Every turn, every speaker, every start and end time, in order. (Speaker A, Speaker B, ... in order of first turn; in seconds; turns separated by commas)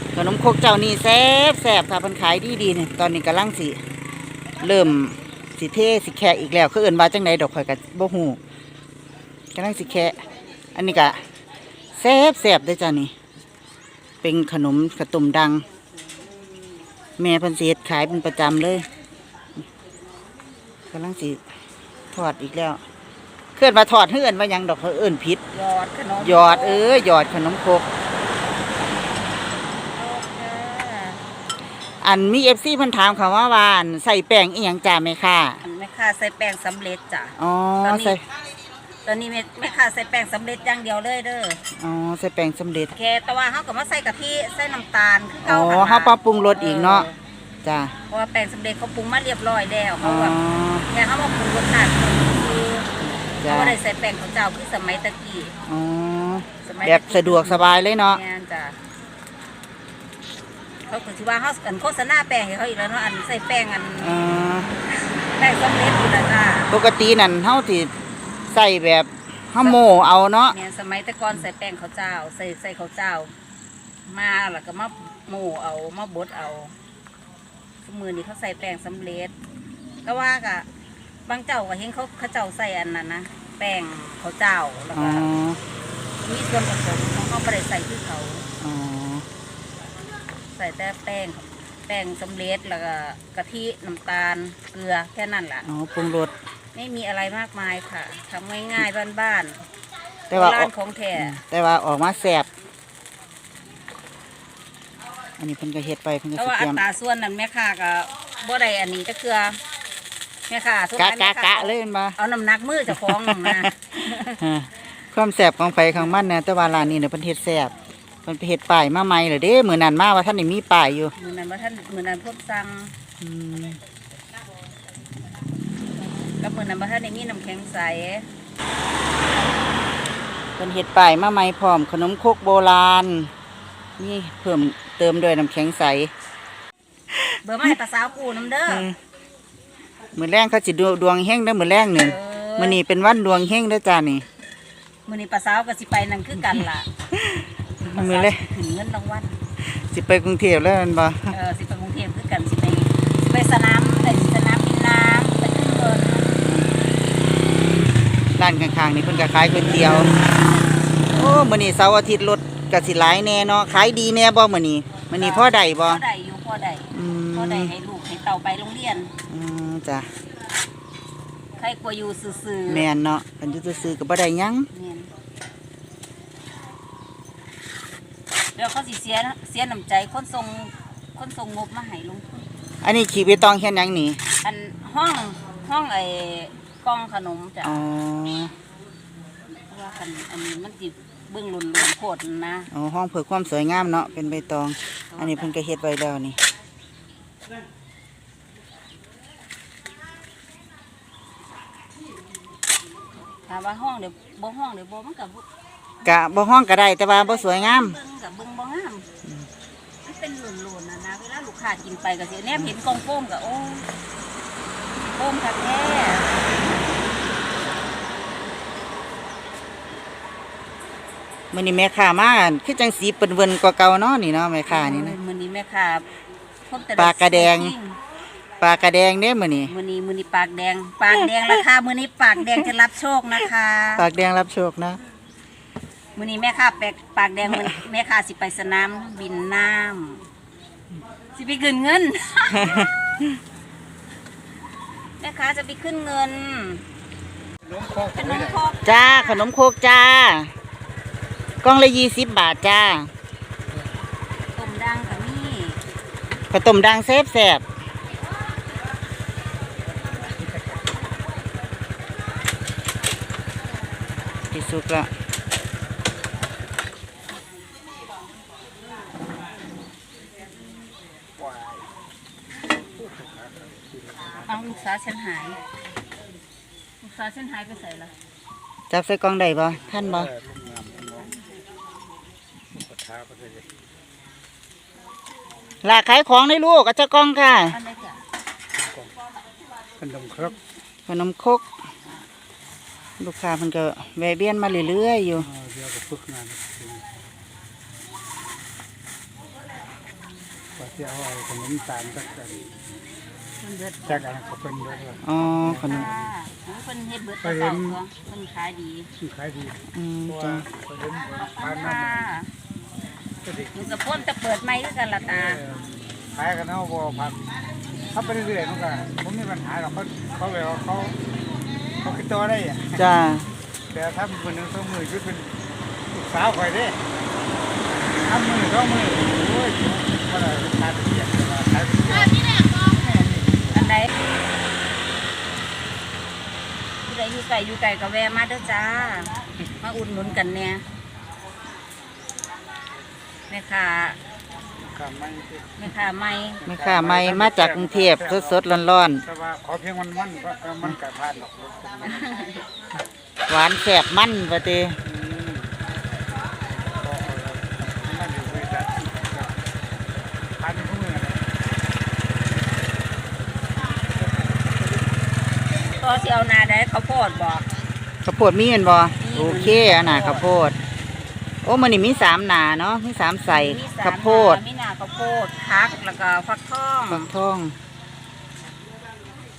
Speaker A: 0.1-3.8, Speaker A: 4.6-8.4, Speaker A: 9.5-10.2, Speaker A: 10.7-11.2, Speaker A: 11.9-13.1, Speaker A: 14.2-15.6, Speaker A: 17.2-18.9, Speaker A: 20.9-21.4, Speaker A: 22.1-22.8, Speaker A: 23.6-25.4, Speaker B: 25.5-27.0, Speaker A: 26.2-27.9, Speaker B: 29.9-31.2, Speaker A: 32.0-35.6, Speaker B: 35.6-38.2, Speaker A: 37.4-38.2, Speaker B: 39.0-41.6, Speaker A: 41.7-42.9, Speaker B: 42.9-47.2, Speaker A: 45.4-47.1, Speaker A: 47.6-47.9, Speaker B: 48.1-52.9, Speaker A: 50.0-50.9, Speaker A: 53.2-53.8, Speaker B: 53.5-55.6, Speaker A: 55.7-58.2, Speaker B: 56.6-58.8, Speaker B: 60.9-64.2, Speaker A: 64.0-64.7, Speaker B: 64.9-66.7, Speaker A: 66.7-67.9, Speaker A: 68.5-70.6, Speaker B: 70.5-73.3, Speaker B: 74.1-76.7, Speaker B: 77.8-79.3, Speaker B: 80.0-80.7, Speaker B: 81.2-85.3, Speaker A: 84.9-85.6, Speaker B: 86.2-88.5, Speaker A: 88.6-89.2, Speaker B: 90.5-95.7, Speaker A: 95.6-96.3, Speaker B: 96.7-99.6, Speaker B: 100.3-101.4, Speaker A: 100.3-102.5, Speaker A: 105.4-106.8, Speaker B: 106.3-109.6, Speaker B: 110.5-114.4, Speaker A: 111.0-112.2, Speaker A: 112.9-117.7, Speaker A: 118.2-121.1, Speaker B: 121.2-122.9, Speaker A: 123.2-123.8, Speaker B: 126.3-128.3, Speaker A: 130.6-133.3, Speaker A: 134.0-136.1, Speaker A: 137.1-137.7, Speaker B: 137.4-138.9, Speaker A: 138.7-138.9, Speaker A: 140.1-144.2, Speaker B: 142.0-142.8, Speaker B: 145.1-146.9, Speaker A: 147.1-148.5, Speaker B: 147.8-149.4, Speaker A: 149.7-151.3, Speaker B: 151.3-156.5, Speaker A: 156.4-156.7, Speaker A: 158.4-160.2, Speaker B: 159.9-161.3, Speaker A: 161.1-166.0, Speaker B: 165.1-169.1, Speaker A: 166.9-167.7, Speaker A: 169.3-170.1, Speaker B: 171.6-172.9, Speaker A: 172.7-174.7, Speaker B: 174.7-175.1, Speaker B: 178.6-182.5, Speaker A: 182.8-184.2, Speaker B: 184.4-187.8, Speaker A: 187.6-188.5, Speaker B: 189.6-192.7, Speaker A: 192.7-196.4, Speaker B: 195.1-195.5, Speaker B: 203.4-205.4, Speaker A: 206.0-208.0, Speaker B: 207.2-209.1, Speaker B: 210.0-213.9, Speaker B: 215.0-216.4, Speaker A: 221.5-225.2, Speaker B: 224.7-226.1, Speaker B: 226.7-228.0, Speaker A: 226.9-227.7, Speaker A: 228.6-229.7, Speaker B: 229.7-234.1, Speaker A: 233.9-235.0, Speaker B: 236.2-240.2, Speaker B: 241.3-242.8, Speaker A: 242.5-242.9, Speaker B: 245.2-246.8, Speaker C: 247.7-248.2, Speaker B: 248.1-249.4, Speaker A: 248.8-250.5, Speaker A: 251.6-253.1, Speaker B: 254.5-255.8, Speaker A: 256.5-257.6, Speaker A: 264.5-265.1, Speaker C: 271.4-271.8, Speaker C: 273.0-274.4, Speaker B: 274.4-275.6, Speaker B: 277.0-278.1, Speaker A: 278.9-280.3, Speaker C: 280.4-281.3, Speaker C: 282.7-283.6, Speaker A: 285.8-287.8, Speaker B: 287.7-288.2, Speaker C: 290.0-290.5, Speaker A: 291.1-291.6, Speaker A: 293.2-295.5, Speaker C: 295.6-297.0, Speaker C: 300.8-302.6, Speaker B: 303.6-304.4, Speaker C: 304.2-305.2, Speaker A: 305.2-306.1, Speaker B: 305.8-309.1, Speaker C: 309.2-309.7, Speaker A: 309.9-310.7, Speaker C: 310.6-311.4, Speaker B: 311.4-312.5, Speaker B: 313.7-315.6, Speaker C: 316.3-317.4, Speaker C: 318.1-321.2, Speaker C: 322.0-322.9, Speaker A: 322.9-323.5, Speaker C: 323.9-325.5, Speaker C: 326.1-327.0, Speaker C: 328.2-332.6, Speaker B: 333.7-334.1, Speaker B: 337.1-340.8, Speaker B: 343.5-344.2, Speaker C: 344.8-345.7, Speaker B: 345.8-346.6, Speaker A: 346.6-349.2, Speaker C: 346.9-348.2, Speaker C: 349.3-352.0, Speaker B: 352.0-352.6, Speaker A: 353.5-355.0, Speaker C: 355.3-355.7, Speaker C: 357.0-359.4, Speaker C: 360.6-361.4, Speaker B: 365.9-367.7, Speaker A: 368.2-370.8, Speaker B: 369.2-370.5, Speaker A: 371.6-374.6, Speaker B: 373.5-377.3, Speaker A: 377.1-377.7